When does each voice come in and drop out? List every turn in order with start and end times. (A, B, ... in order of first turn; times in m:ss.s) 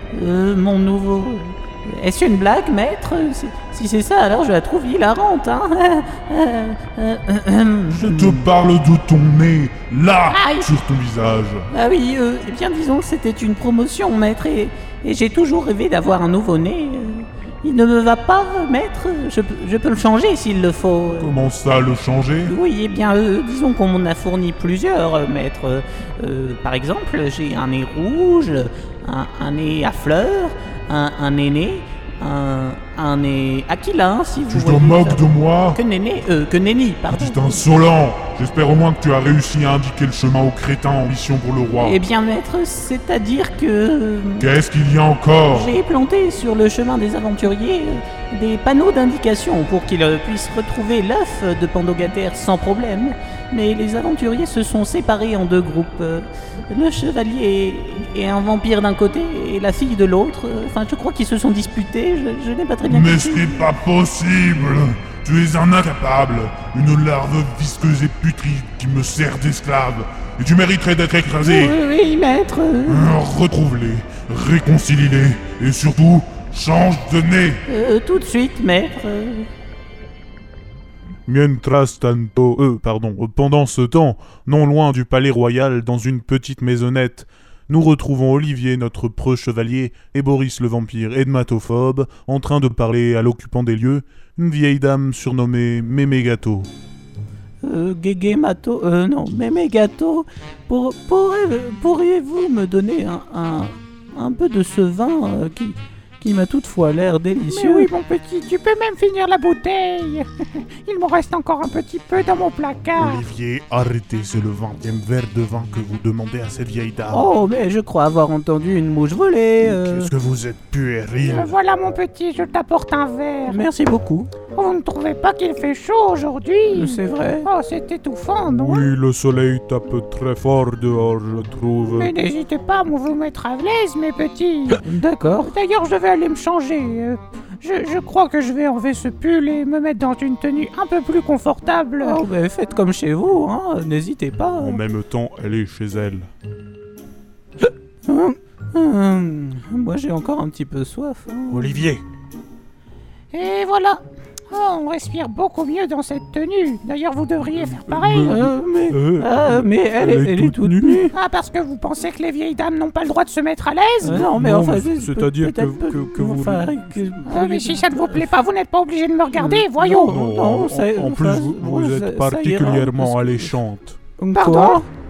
0:00.1-0:08.5 A
0:07.9-0:11.7 B
0:10.2-0:10.8 A
0:11.7-0:21.4 A
0:21.2-0:22.5 B
0:22.4-0:37.6 A
0:34.5-0:35.8 B
0:37.1-0:42.0 B
0:41.8-0:44.6 A
0:44.4-0:45.7 B
0:45.4-1:03.8 A
1:02.9-1:11.8 B
1:11.4-1:13.2 A
1:12.8-1:17.6 B
1:17.7-1:19.5 A
1:21.2-1:36.7 B
1:37.6-1:47.9 A
1:47.5-1:53.2 C
1:53.0-1:57.3 B
1:57.1-2:00.1 A
1:59.6-2:01.5 B
2:01.2-2:03.6 C
2:03.5-2:04.3 A
2:04.4-2:08.9 C
2:06.7-2:07.5 A
2:08.5-2:12.1 B
2:11.9-2:14.8 C
2:14.7-2:15.5 A
2:15.4-2:22.2 C
2:22.0-2:24.8 A
2:24.5-2:26.3 B
2:28.0-2:31.9 A
2:31.5-2:32.0 B
2:33.3-2:38.4 C
2:37.6-2:41.1 B
2:38.3-2:41.1 A
2:41.1-2:44.2 C
2:44.0-2:47.3 B
2:44.0-2:48.3 A
2:47.2-2:50.2 C
2:49.3-2:53.6 A
2:49.8-2:54.0 B
2:54.2-2:54.9 A
2:54.4-2:54.8 C